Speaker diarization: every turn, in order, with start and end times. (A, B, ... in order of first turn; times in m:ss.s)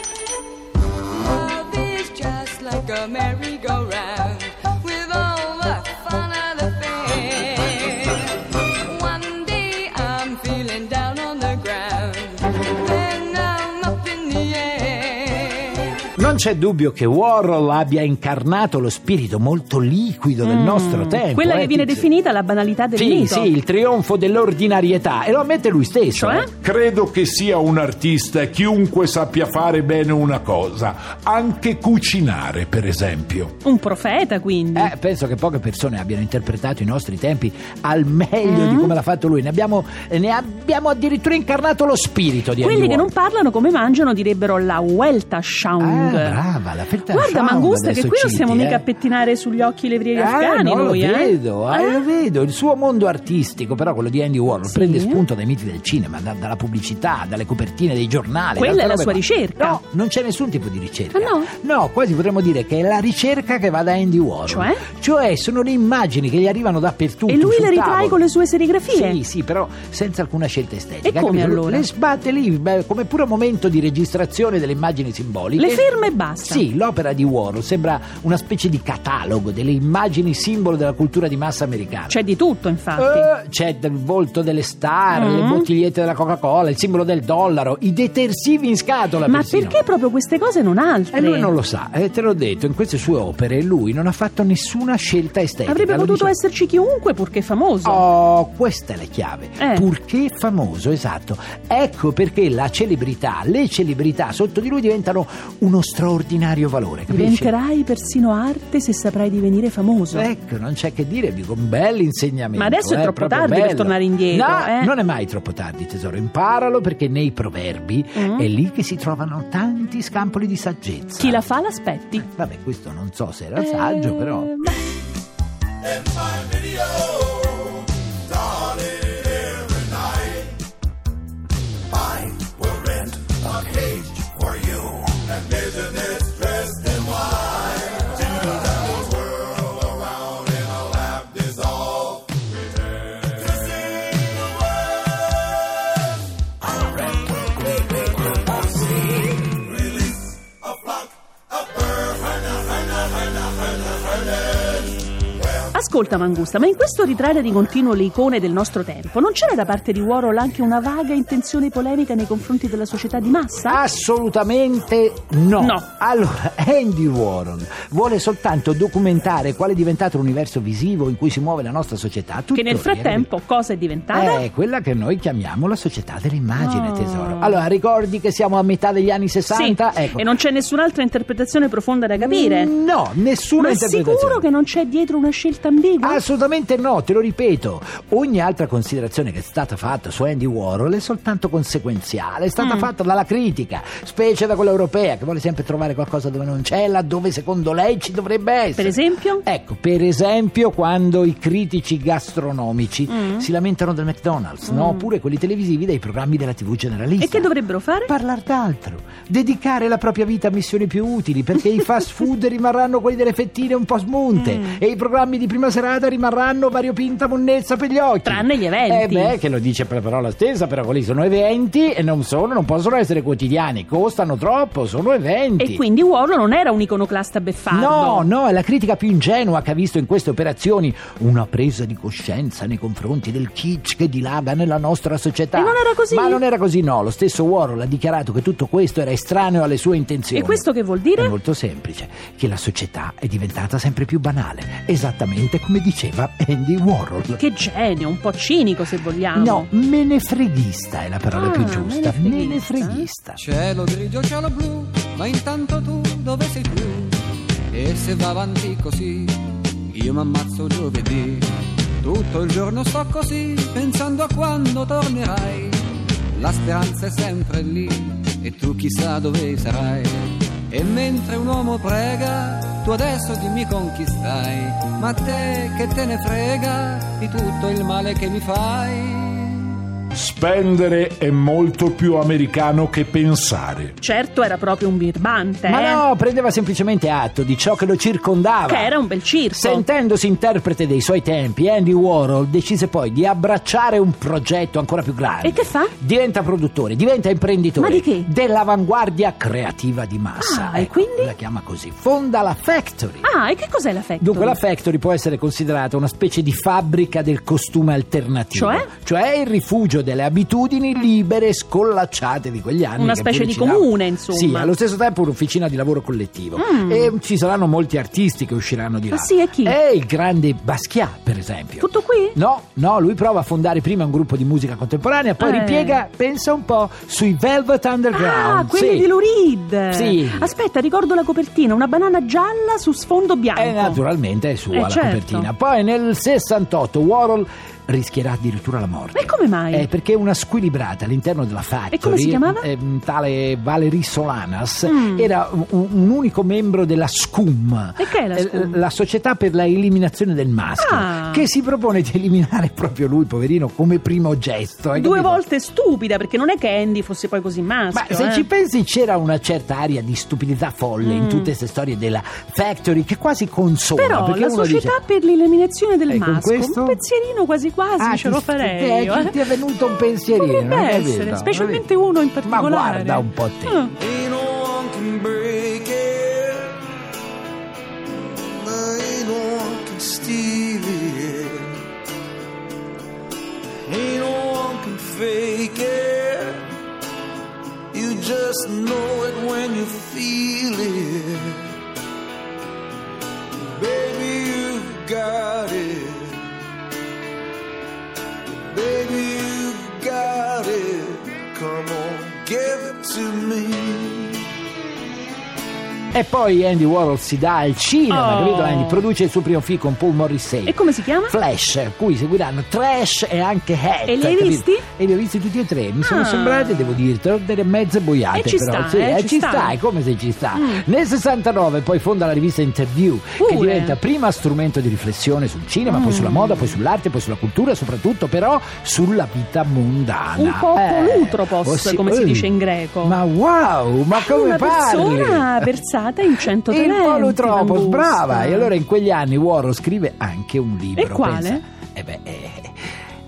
0:01.1-0:16.1 A
0:16.2-0:22.1 B
0:20.4-0:23.5 C
0:23.0-0:26.5 B
0:26.2-0:26.5 C
0:26.6-0:33.5 D
0:33.6-0:34.9 C
0:34.7-0:43.1 B
0:38.4-0:38.9 C
0:42.6-0:46.4 C
0:45.8-0:48.8 B
0:47.1-0:52.0 C
0:50.1-1:08.2 B
0:54.6-0:55.2 C
0:58.6-0:59.8 C
1:01.1-1:01.5 C
1:04.5-1:04.8 C
1:07.3-1:09.2 C
1:08.9-1:15.9 B
1:11.0-1:11.9 C
1:15.6-1:16.6 C
1:16.4-1:22.2 B
1:22.1-1:23.3 C
1:23.0-1:29.8 B
1:25.1-1:25.7 C
1:29.2-1:31.5 C
1:31.1-1:36.3 B
1:35.7-1:38.0 C
1:37.8-1:47.5 B
1:39.6-1:39.9 C
1:47.1-1:50.3 C
1:50.1-2:01.4 B
1:52.6-1:54.9 C
1:58.1-1:58.5 C
2:01.2-2:02.3 C
2:02.2-2:04.7 B
2:03.6-2:05.0 C
2:35.7-2:43.8 C
2:43.6-2:53.3 B
2:45.6-2:45.8 C
2:52.5-2:54.4 C
2:54.1-3:00.3 B
2:56.6-2:57.6 C
2:59.5-3:02.7 C
3:02.2-3:04.5 B
3:03.6-3:06.2 C
3:06.0-3:27.5 B
3:12.6-3:12.9 C
3:18.8-3:19.4 C
3:23.1-3:23.4 C
3:24.7-3:25.1 C
3:27.2-3:28.1 C
3:28.0-3:45.8 B
3:34.4-3:34.8 C
3:38.2-3:39.4 C
3:45.6-3:48.3 C
3:47.7-4:07.4 B
3:55.5-3:56.4 C
4:00.3-4:01.3 C
4:07.4-4:09.7 C
4:09.3-4:13.4 B
4:11.3-4:13.1 C
4:13.4-4:21.5 E
4:22.0-4:39.8 E
4:40.1-4:43.9 D
4:44.0-4:46.0 C
4:45.7-4:48.9 B
4:48.7-4:49.9 C
4:49.5-5:03.3 B
4:55.4-4:55.9 C
4:57.8-4:58.3 C
5:00.4-5:01.3 C
5:03.2-5:04.6 C
5:04.2-5:29.1 B
5:08.5-5:08.9 C
5:13.0-5:14.7 C
5:16.6-5:17.1 C
5:19.1-5:19.8 C
5:21.8-5:22.4 C
5:25.4-5:26.0 C
5:28.1-5:34.0 C
5:29.9-5:30.5 B
5:33.5-5:55.4 B
5:34.7-5:35.5 C
5:39.1-5:39.9 C
5:41.9-5:42.7 C
5:44.9-5:45.3 C
5:48.0-5:48.8 C
5:50.8-5:51.4 C
5:54.9-5:58.5 C
5:57.9-6:05.0 B
6:01.0-6:01.5 C
6:04.0-6:09.4 C
6:06.1-6:07.0 B
6:08.0-6:11.9 B
6:10.4-6:13.9 C
6:12.4-6:13.8 B
6:14.0-6:16.8 F
6:18.3-6:21.8 F
6:23.9-6:26.7 F
6:27.9-6:31.7 F
6:33.7-6:36.5 F
6:38.8-6:44.1 F
6:39.8-6:40.4 D
6:44.0-6:44.4 D
6:46.1-7:12.5 B
6:48.1-6:49.1 C
6:50.6-6:51.4 C
6:54.1-6:54.8 C
6:56.0-6:57.0 C
6:58.3-6:59.8 C
7:00.5-7:00.8 C
7:03.4-7:04.0 C
7:05.9-7:06.8 C
7:10.4-7:13.2 C
7:13.0-7:15.8 B
7:14.1-7:18.7 C
7:16.6-7:22.9 B
7:21.0-7:21.6 C